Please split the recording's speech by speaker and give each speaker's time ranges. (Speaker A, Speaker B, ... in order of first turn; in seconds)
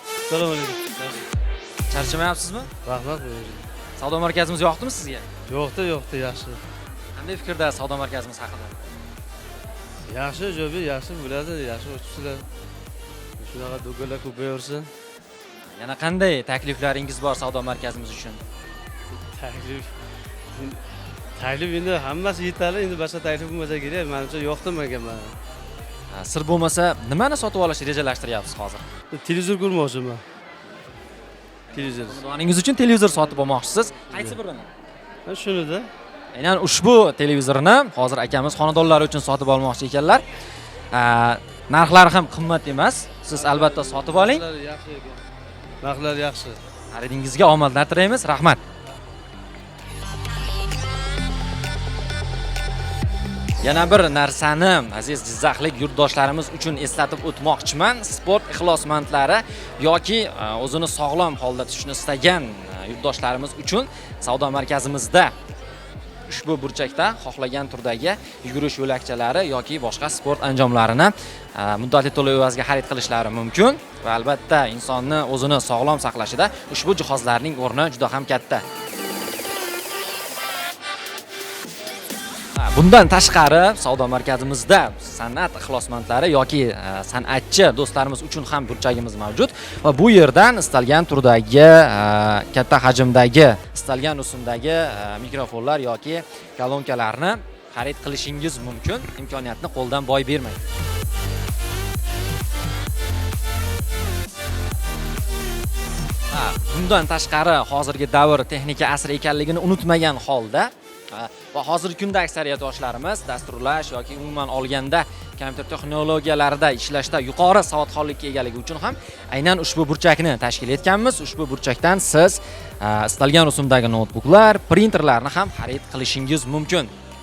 Speaker A: 0.3-1.2, 2.8-3.6, 5.5-6.6, 10.1-12.4, 13.4-14.9, 19.2-19.9, 21.4-25.3, 29.1-30.2, 31.7-32.2, 34.0-34.4, 35.3-35.9, 43.3-45.2, 45.8-46.6
Speaker B: 1.9-2.7, 4.0-5.2, 7.1-8.8, 15.8-18.4, 26.1-28.8, 32.0-34.7, 36.3-40.2, 40.9-44.4, 46.9-48.6, 53.6-65.3, 66.3-78.6, 82.5-100.6, 106.3-126.9